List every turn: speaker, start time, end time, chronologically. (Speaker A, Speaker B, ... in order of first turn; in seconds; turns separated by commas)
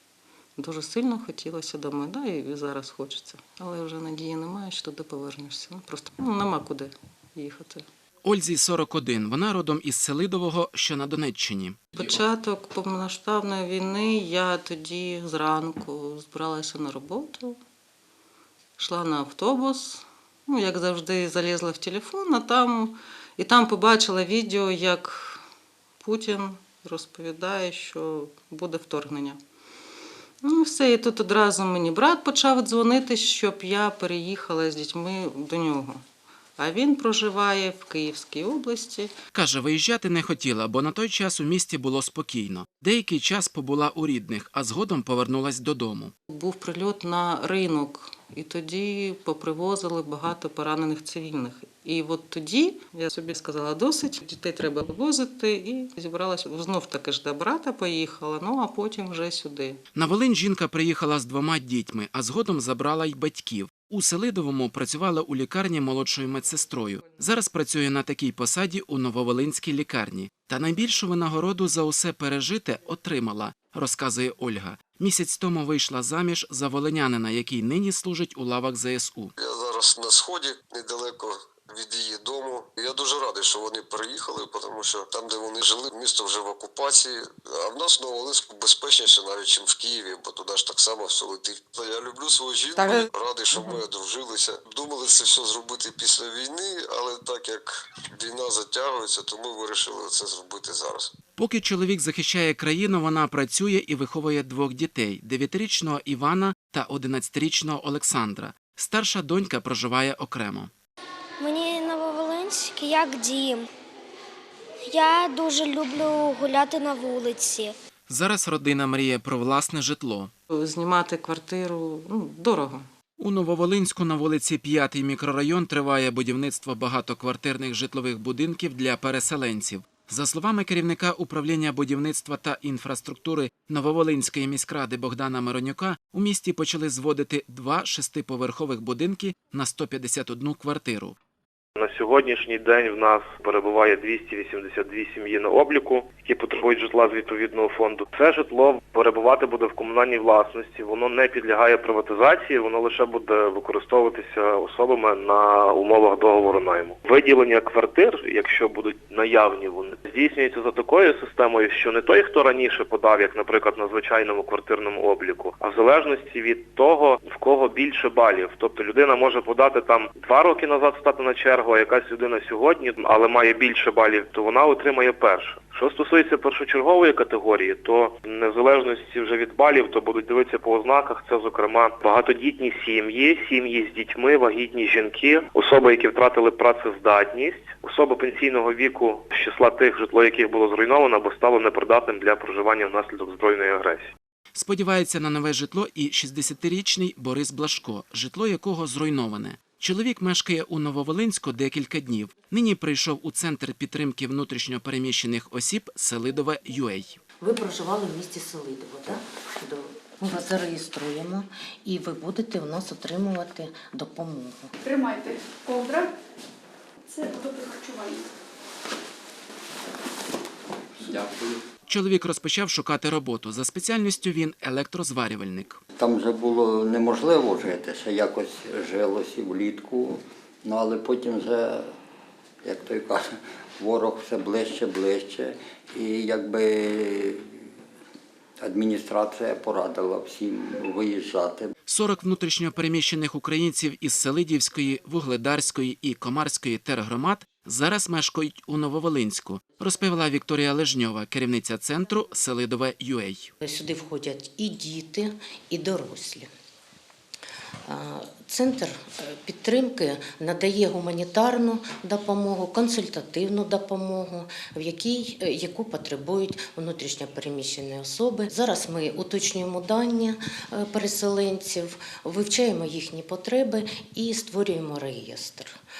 Speaker A: 0.6-7.9, Speaker B: 8.2-11.8, Speaker A: 11.9-17.6, Speaker A: 18.8-25.4, Speaker A: 26.0-29.4, Speaker A: 30.4-36.0, Speaker A: 36.6-39.1, Speaker B: 39.3-46.1, Speaker A: 46.3-59.8, Speaker B: 59.9-79.3, Speaker C: 79.4-101.1, Speaker B: 101.4-110.7, Speaker D: 111.4-113.7, Speaker D: 114.9-117.8, Speaker B: 118.1-120.3, Speaker A: 120.5-122.8, Speaker B: 123.2-141.2, Speaker E: 141.8-194.1, Speaker B: 194.6-207.2, Speaker F: 207.4-214.7, Speaker G: 214.8-216.2, Speaker G: 217.1-218.3, Speaker B: 221.9-225.8, Speaker H: 225.9-231.9, Speaker H: 232.6-237.7, Speaker H: 238.6-241.7, Speaker B: 241.9-253.5, Speaker F: 253.6-256.5, Speaker F: 257.9-275.7